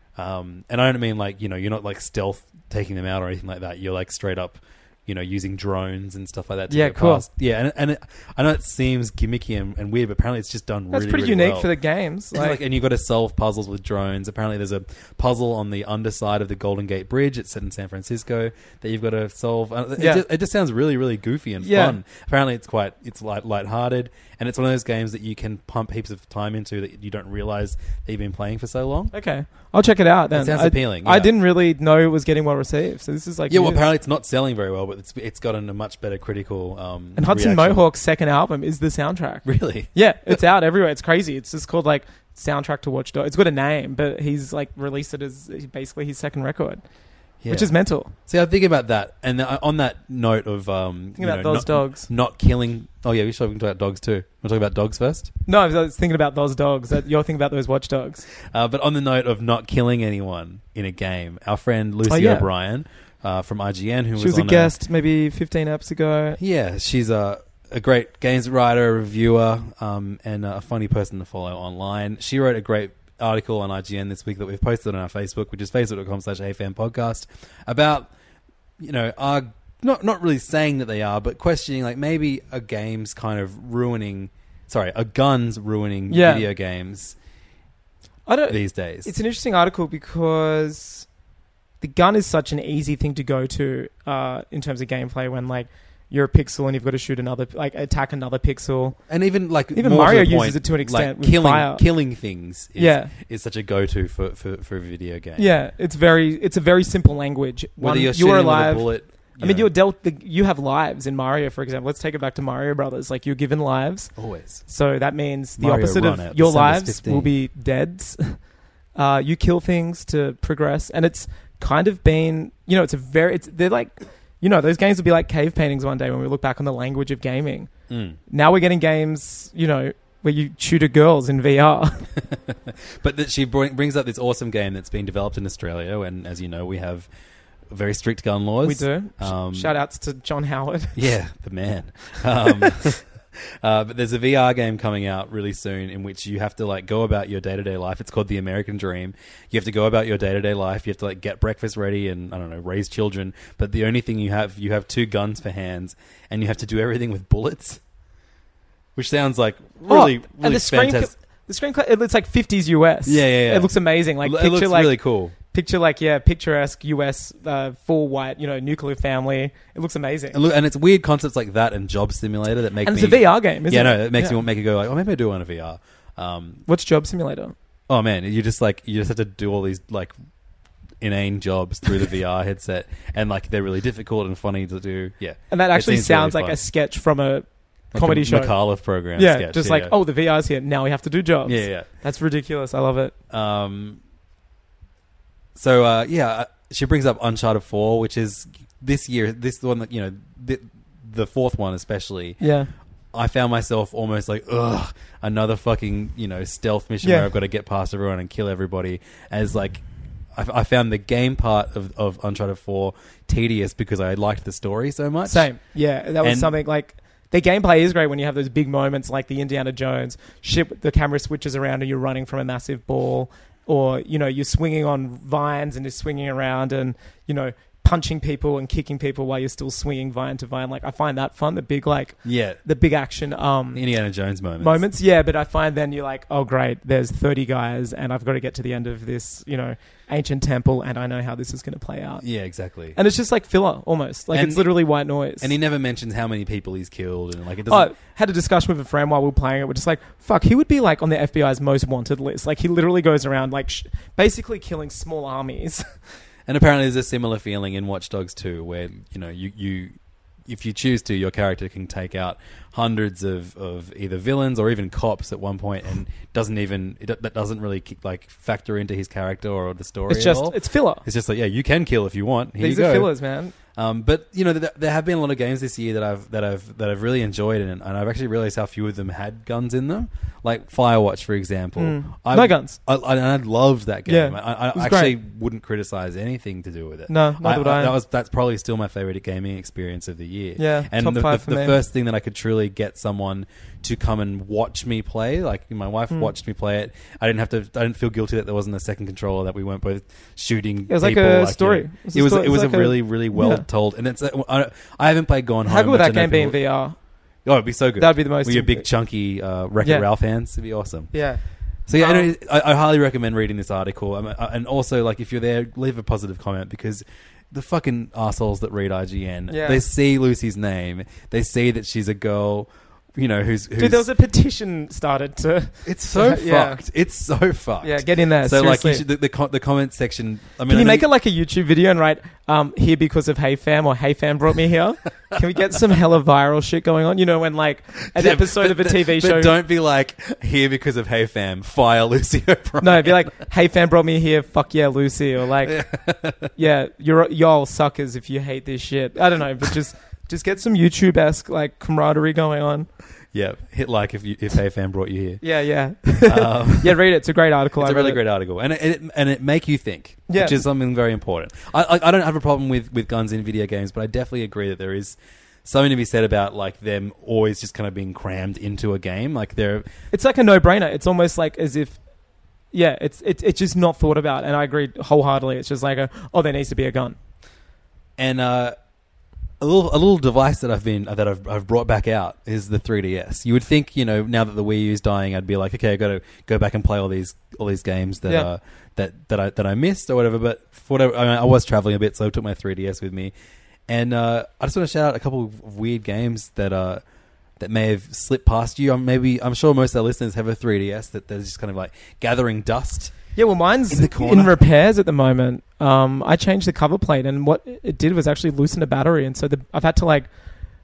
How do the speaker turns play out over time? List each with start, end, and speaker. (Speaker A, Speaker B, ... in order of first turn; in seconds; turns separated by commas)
Speaker A: 0.2-11.7, Speaker B: 6.7-7.3, Speaker B: 10.9-12.6, Speaker A: 12.3-29.1, Speaker B: 20.0-20.2, Speaker B: 21.6-22.0, Speaker B: 29.1-33.8, Speaker A: 30.3-31.3, Speaker A: 33.5-37.8, Speaker B: 37.2-46.8, Speaker A: 39.4-40.4, Speaker A: 47.4-55.3, Speaker B: 47.5-48.1, Speaker B: 51.2-52.1, Speaker B: 55.5-58.2, Speaker A: 58.4-64.7, Speaker B: 62.1-62.5, Speaker B: 64.2-66.4, Speaker A: 66.4-78.1, Speaker A: 78.8-87.2, Speaker B: 86.1-86.5, Speaker B: 88.3-91.1, Speaker A: 88.5-89.1, Speaker B: 91.8-99.0, Speaker A: 99.1-105.5, Speaker B: 99.7-101.8, Speaker B: 102.8-103.1, Speaker B: 105.4-114.1, Speaker A: 107.8-109.7, Speaker A: 114.2-114.6, Speaker B: 114.7-118.4, Speaker A: 115.6-117.3, Speaker B: 119.0-127.7, Speaker A: 127.9-128.2, Speaker B: 128.3-132.1, Speaker A: 132.2-137.1, Speaker A: 137.7-139.7, Speaker B: 138.6-141.0, Speaker A: 140.9-157.8, Speaker A: 159.0-161.1, Speaker B: 159.9-170.4, Speaker A: 163.1-165.3, Speaker A: 170.3-176.6, Speaker B: 172.8-174.4, Speaker B: 176.7-177.6, Speaker A: 177.9-180.1, Speaker A: 181.0-186.6, Speaker B: 185.5-188.5, Speaker A: 187.9-189.9, Speaker B: 189.1-193.1, Speaker A: 191.5-191.9, Speaker A: 193.3-194.0, Speaker A: 195.6-202.4, Speaker B: 202.4-202.7, Speaker A: 203.1-215.5, Speaker B: 207.0-207.3, Speaker B: 215.3-233.8, Speaker A: 216.2-216.5, Speaker A: 232.2-232.6, Speaker A: 233.7-234.8, Speaker B: 234.6-242.2, Speaker A: 242.2-243.0, Speaker B: 242.9-245.5, Speaker A: 244.3-244.8, Speaker A: 245.4-247.9, Speaker B: 247.7-255.9, Speaker A: 256.5-273.1, Speaker B: 270.1-271.0, Speaker B: 272.6-273.5, Speaker A: 273.7-306.6, Speaker B: 281.8-282.8, Speaker B: 284.1-285.1, Speaker B: 287.1-287.9, Speaker B: 290.6-291.8, Speaker B: 300.9-303.6, Speaker B: 305.7-307.0, Speaker A: 307.4-311.1, Speaker B: 308.0-308.9, Speaker B: 309.8-310.1, Speaker B: 311.1-311.4, Speaker A: 311.9-324.1, Speaker B: 312.0-312.3, Speaker B: 319.5-319.8, Speaker B: 323.8-326.8, Speaker A: 325.8-331.1, Speaker B: 327.8-329.0, Speaker B: 330.7-339.6, Speaker A: 338.1-343.4, Speaker B: 342.8-345.8, Speaker A: 345.6-346.5, Speaker B: 346.6-352.9, Speaker A: 353.3-355.4, Speaker B: 355.4-358.2, Speaker A: 356.1-357.0, Speaker A: 357.8-369.9, Speaker B: 360.3-360.6, Speaker B: 370.1-372.0, Speaker B: 372.7-377.2, Speaker A: 378.2-378.8, Speaker A: 379.6-393.3, Speaker A: 393.9-397.0, Speaker A: 397.6-403.1, Speaker B: 403.4-410.3, Speaker A: 403.9-404.6